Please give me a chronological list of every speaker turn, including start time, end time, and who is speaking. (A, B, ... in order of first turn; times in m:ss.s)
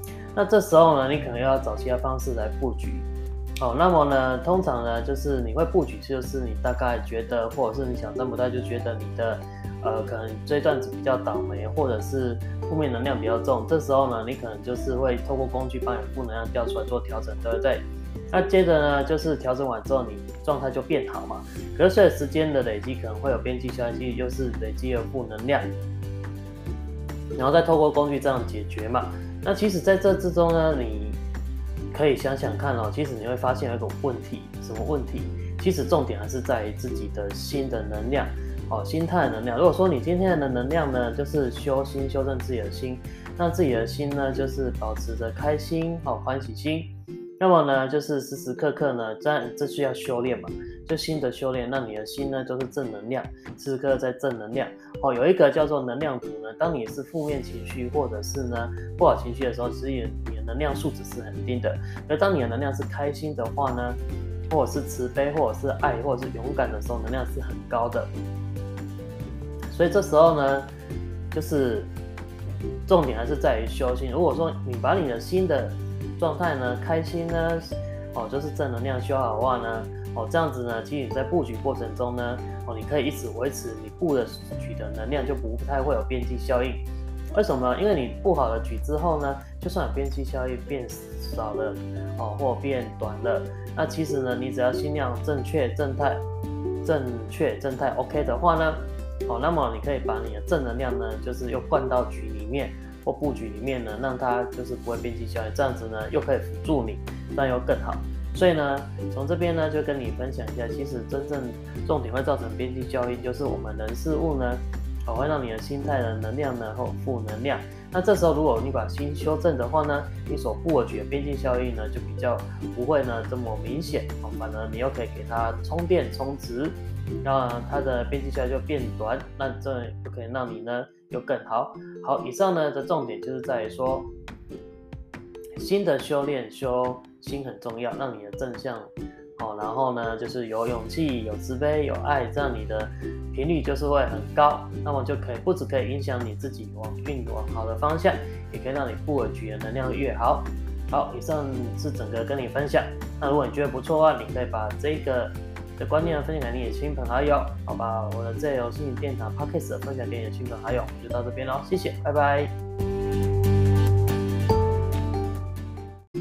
0:00.3-0:03.1 A
0:03.6-0:25.7 A
0:27.4-0:31.2 A
0:31.9-1:04.0 A
1:04.5-1:08.1 A
1:09.7-1:10.7 A
1:11.3-1:11.9 A
1:12.8-1:36.2 A
1:36.8-2:14.1 A
2:15.6-2:42.5 A